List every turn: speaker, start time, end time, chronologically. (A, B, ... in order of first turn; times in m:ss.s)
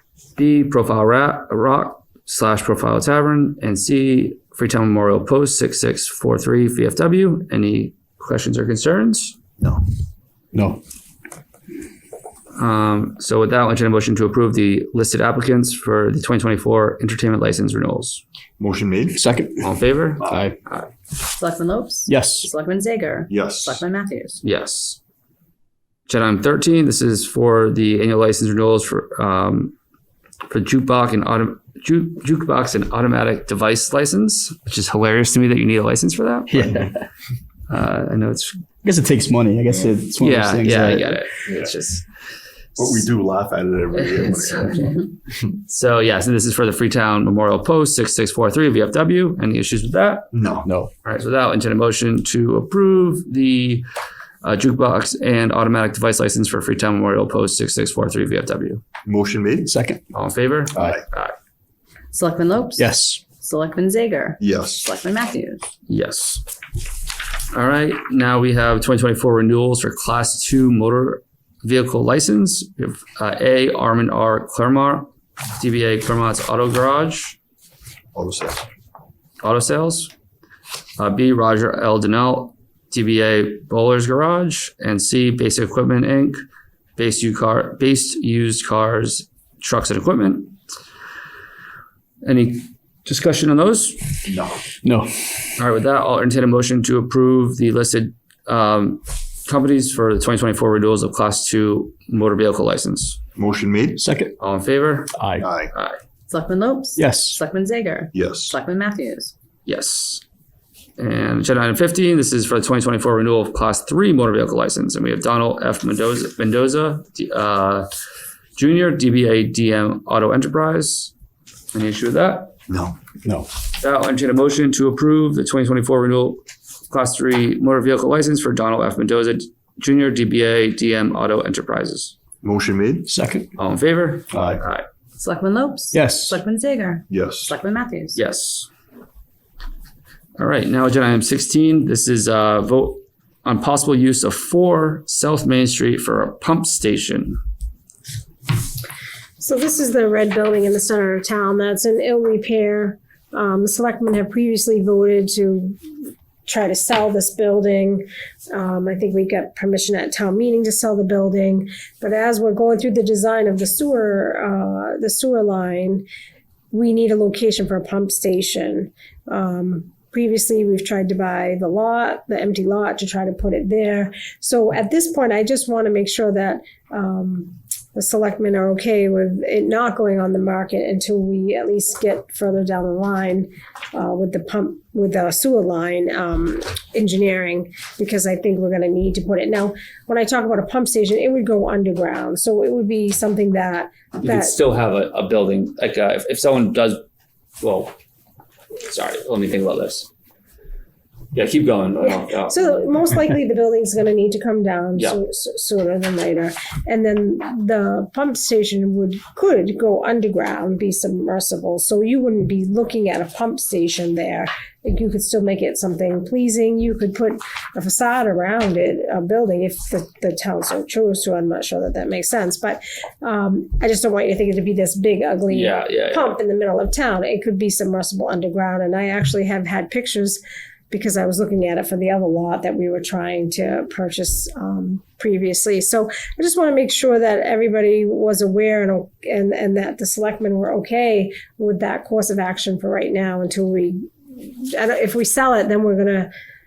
0:00.4-0:09.4 A
0:09.6-0:09.8 B
0:10.5-0:10.8 C
0:12.6-0:18.2 A
0:18.6-0:19.2 B
0:19.1-0:19.7 C
0:19.6-0:20.9 A
0:20.2-0:20.5 B
0:20.3-0:20.5 C
0:21.4-0:24.4 D
0:22.1-0:22.5 C
0:23.3-0:23.8 B
0:24.4-0:25.0 A
0:26.1-0:29.8 A
0:30.5-0:36.8 A
0:36.5-0:36.9 C
0:37.7-0:38.6 A
0:38.8-0:41.2 C
0:40.2-0:42.0 A
0:41.5-0:41.7 B
0:42.8-0:45.0 B
0:44.0-0:45.0 A
0:45.6-0:50.3 A
0:50.3-0:50.7 B
0:51.0-0:53.8 A
0:54.4-0:58.8 A
0:59.0-0:59.7 B
0:59.6-1:00.0 C
1:00.1-1:01.3 A
1:00.7-1:01.0 B
1:02.1-1:05.6 D
1:02.8-1:03.2 C
1:04.4-1:04.9 B
1:05.9-1:06.4 A
1:07.5-1:17.4 A
1:18.1-1:18.7 B
1:19.4-1:20.1 A
1:21.0-1:26.4 A
1:27.0-1:30.5 A
1:32.2-1:34.1 A
1:34.2-1:34.7 B
1:34.8-1:35.1 C
1:35.6-1:43.2 A
1:43.4-1:44.0 B
1:44.0-1:44.3 C
1:44.4-1:45.1 A
1:45.1-1:45.5 C
1:45.4-1:45.7 B
1:45.7-1:46.0 A
1:46.3-1:49.3 D
1:47.0-1:47.4 C
1:48.1-1:48.6 B
1:49.7-1:50.2 A
1:51.0-1:57.9 A
1:58.6-2:01.1 A
2:01.7-2:02.5 A
2:02.7-2:03.0 B
2:03.8-2:12.2 A
2:12.4-2:13.1 B
2:13.1-2:13.5 C
2:13.6-2:14.8 A
2:15.2-2:18.2 D
2:15.9-2:16.3 C
2:17.1-2:17.5 B
2:18.2-2:18.7 A
2:20.4-2:27.4 A
2:29.4-2:35.8 E
2:36.5-2:46.1 E
2:46.7-3:14.6 E
3:14.2-3:17.0 A
3:17.6-3:17.9 A
3:18.8-3:20.1 A
3:21.3-3:22.9 A
3:22.0-4:06.3 E
3:45.5-3:46.4 A